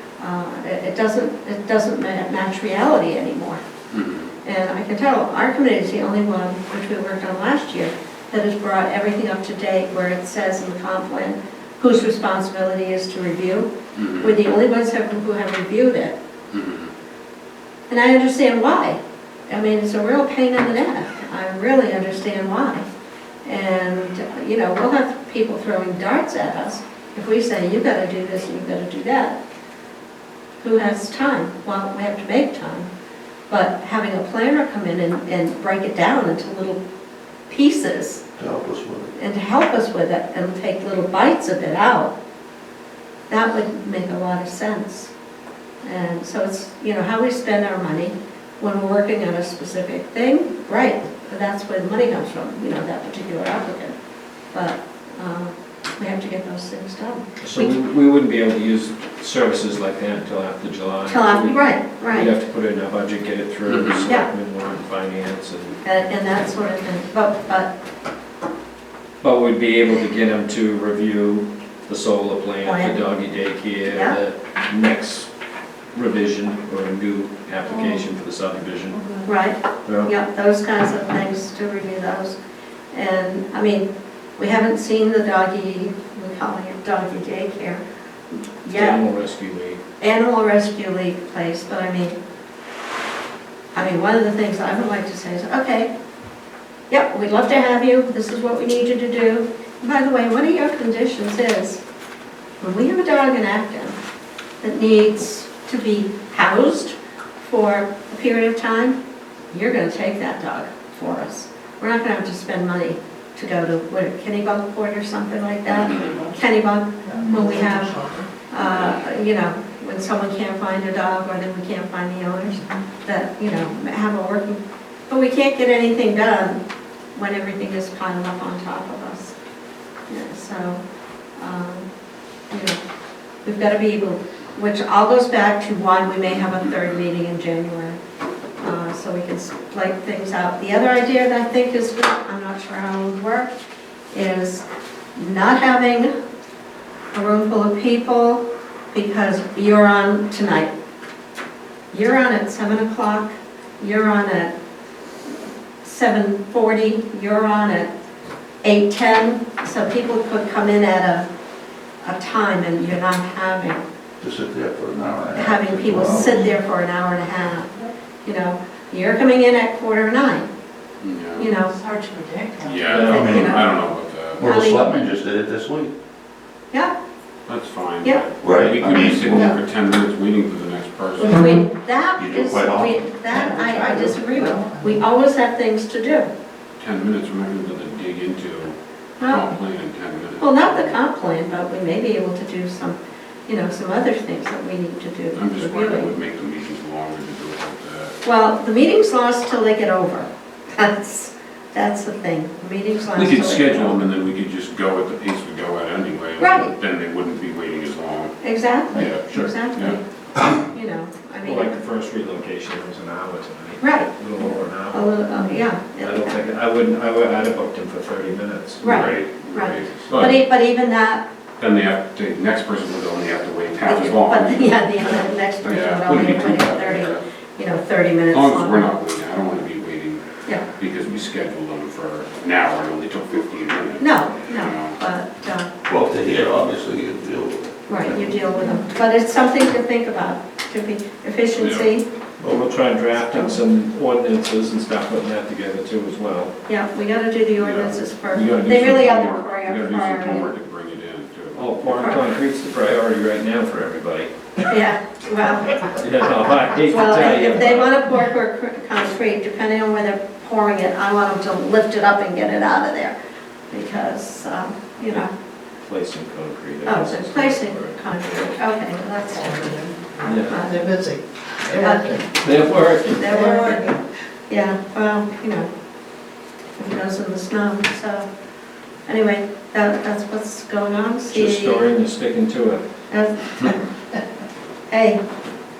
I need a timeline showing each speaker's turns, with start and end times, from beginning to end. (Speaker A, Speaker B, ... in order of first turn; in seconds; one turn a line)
Speaker A: 0.2-3.6
Speaker B: 3.9-4.3
Speaker A: 4.4-16.1
Speaker B: 13.9-14.5
Speaker B: 16.5-16.9
Speaker A: 17.9-22.9
Speaker A: 23.4-29.4
Speaker A: 30.6-32.9
Speaker A: 33.5-36.8
Speaker A: 37.5-38.2
Speaker C: 38.4-39.1
Speaker A: 39.1-42.1
Speaker A: 43.3-45.1
Speaker A: 45.8-53.9
Speaker A: 54.5-57.7
Speaker D: 57.4-65.8
Speaker A: 61.1-62.3
Speaker B: 63.6-64.1
Speaker A: 65.8-67.7
Speaker D: 69.2-75.3
Speaker A: 72.6-73.0
Speaker A: 73.9-74.2
Speaker D: 75.9-79.0
Speaker E: 79.0-79.2
Speaker A: 79.2-82.3
Speaker D: 79.8-80.1
Speaker A: 82.9-89.0
Speaker D: 88.7-89.8
Speaker A: 90.0-92.2
Speaker A: 93.7-95.9
Speaker A: 96.9-101.8
Speaker A: 102.6-104.0
Speaker A: 104.6-109.0
Speaker A: 109.5-126.6
Speaker B: 115.7-116.2
Speaker E: 117.1-118.3
Speaker B: 118.6-119.0
Speaker A: 127.1-129.3
Speaker A: 130.1-130.8
Speaker A: 131.4-131.9
Speaker A: 132.5-132.8
Speaker A: 133.4-138.0
Speaker A: 138.6-143.5
Speaker A: 144.1-144.6
Speaker A: 145.2-146.1
Speaker A: 147.1-150.7
Speaker A: 151.9-154.5
Speaker A: 155.8-157.9
Speaker A: 158.6-161.3
Speaker A: 162.0-163.8
Speaker C: 164.2-166.5
Speaker A: 165.3-167.7
Speaker A: 168.2-170.4
Speaker B: 171.0-171.5
Speaker A: 171.3-171.8
Speaker E: 171.7-173.1
Speaker B: 172.6-174.5
Speaker C: 173.0-173.6
Speaker A: 173.1-173.7
Speaker C: 174.4-175.9
Speaker A: 174.4-175.0
Speaker B: 177.5-181.5
Speaker C: 178.4-179.6
Speaker A: 181.2-186.3
Speaker C: 182.2-183.0
Speaker E: 183.3-185.0
Speaker B: 186.8-191.0
Speaker A: 189.2-189.6
Speaker A: 190.4-196.1
Speaker B: 195.3-198.2
Speaker A: 198.2-204.1
Speaker B: 203.1-208.3
Speaker A: 206.4-206.7
Speaker A: 208.4-210.0
Speaker B: 208.9-210.6
Speaker A: 210.6-211.8
Speaker D: 211.4-215.1
Speaker A: 213.8-214.1
Speaker A: 214.9-216.4
Speaker D: 216.0-219.2
Speaker A: 218.8-221.2
Speaker B: 218.8-220.4
Speaker B: 221.6-227.2
Speaker A: 223.8-228.9
Speaker B: 228.3-230.2
Speaker B: 230.8-235.0
Speaker A: 234.0-235.7
Speaker C: 235.8-238.3
Speaker A: 237.9-242.1
Speaker B: 241.6-241.9
Speaker D: 242.4-246.5
Speaker A: 243.2-243.6
Speaker A: 246.7-250.5
Speaker B: 247.6-251.8
Speaker D: 248.3-249.0
Speaker D: 251.5-254.7
Speaker A: 251.8-252.2
Speaker A: 254.7-255.9
Speaker D: 255.9-258.0
Speaker A: 256.8-263.1
Speaker A: 263.7-265.3
Speaker D: 265.9-268.4
Speaker A: 266.8-269.9
Speaker E: 269.4-272.3
Speaker D: 270.2-270.5
Speaker A: 270.4-270.8
Speaker A: 271.8-272.2
Speaker D: 272.3-273.7
Speaker A: 273.2-273.9
Speaker E: 273.3-274.0
Speaker A: 274.5-275.7
Speaker A: 276.8-278.3
Speaker A: 279.1-281.9
Speaker D: 281.3-282.8
Speaker A: 283.1-283.8
Speaker A: 284.9-285.2